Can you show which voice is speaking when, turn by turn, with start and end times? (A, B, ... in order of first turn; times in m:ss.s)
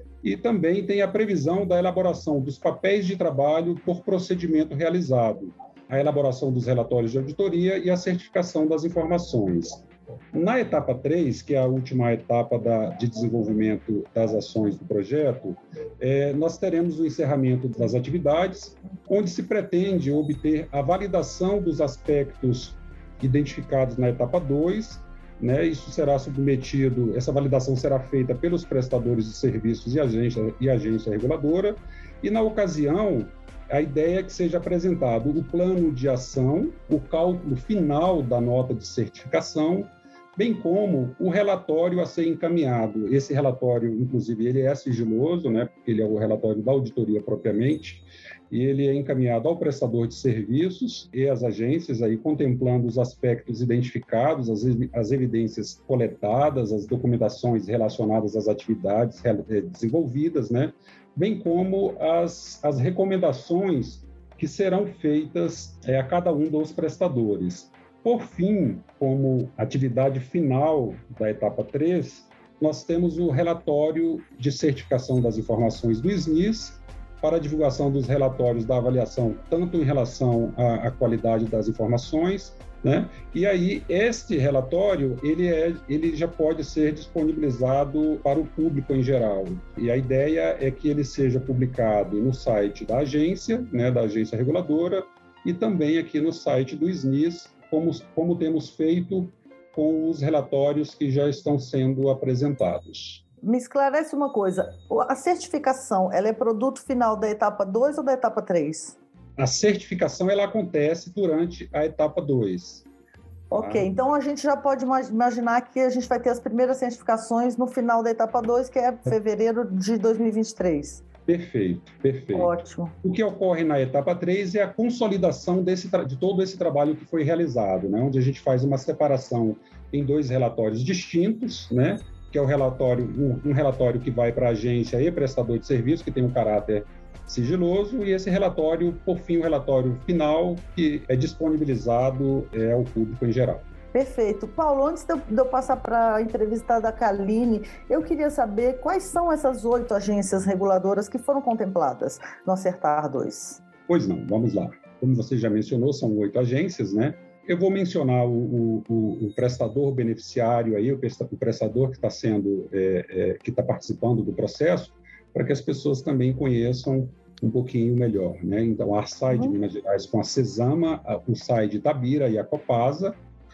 0:00.2-1:43.2 A
1:43.4-1:49.0 B
1:49.4-1:52.9 A
1:53.5-2:01.0 B
1:53.5-1:53.9 A
2:01.2-2:23.6 A
2:02.3-2:02.9 B
2:23.9-2:33.6 B
2:33.9-2:53.2 A
2:49.3-2:49.6 B